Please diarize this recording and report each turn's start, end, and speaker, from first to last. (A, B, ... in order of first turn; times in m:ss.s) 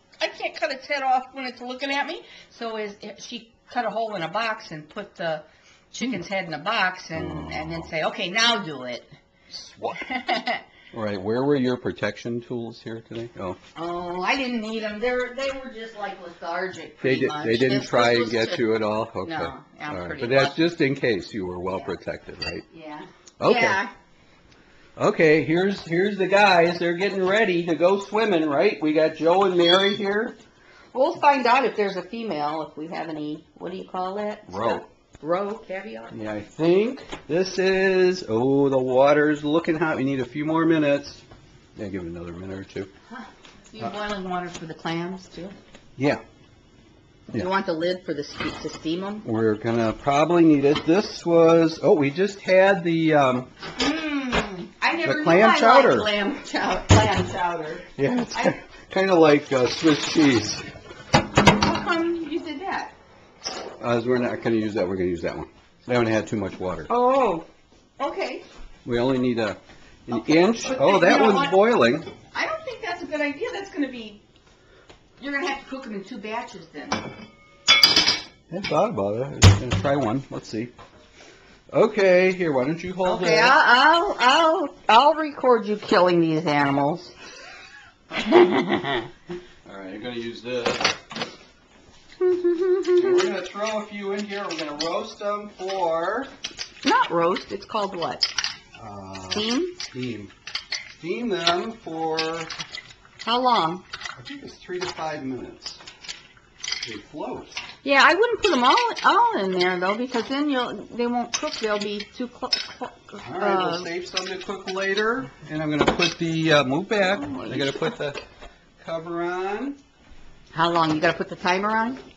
0:00.2-0:09.1 A
0:07.2-0:07.9 B
0:09.5-0:10.0 B
0:10.0-0:10.7 A
0:10.9-0:13.6 B
0:13.8-0:20.8 A
0:17.0-0:22.7 B
0:21.7-0:21.9 A
0:22.7-0:23.9 A
0:23.4-0:23.8 B
0:25.0-0:30.4 B
0:30.9-0:36.2 A
0:34.5-0:34.8 B
0:36.1-0:41.2 B
0:41.8-0:42.9 B
0:43.1-0:45.6 A
0:46.0-0:46.2 B
0:47.3-0:49.2 A
0:49.2-0:53.5 B
0:53.8-0:58.6 A
0:55.0-0:56.1 B
0:58.0-1:00.7 B
1:01.4-1:02.9 A
1:03.8-1:06.9 B
1:06.9-1:07.5 A
1:08.0-1:08.4 A
1:08.8-1:12.1 B
1:10.1-1:11.6 A
1:12.3-1:14.2 A
1:15.2-1:17.1 A
1:18.5-1:20.7 B
1:21.7-1:23.6 B
1:23.0-1:27.1 A
1:28.1-1:29.1 A
1:29.6-1:31.0 B
1:32.2-1:33.3 A
1:32.9-1:36.3 B
1:36.8-1:38.3 A
1:38.8-1:40.3 B
1:39.3-1:39.8 A
1:40.9-1:42.5 B
1:43.2-1:43.8 A
1:44.2-1:45.8 B
1:46.8-1:47.6 B
1:47.8-1:53.9 A
1:53.2-1:58.2 B
1:57.1-1:57.9 A
1:58.8-1:59.8 B
2:00.5-2:02.0 A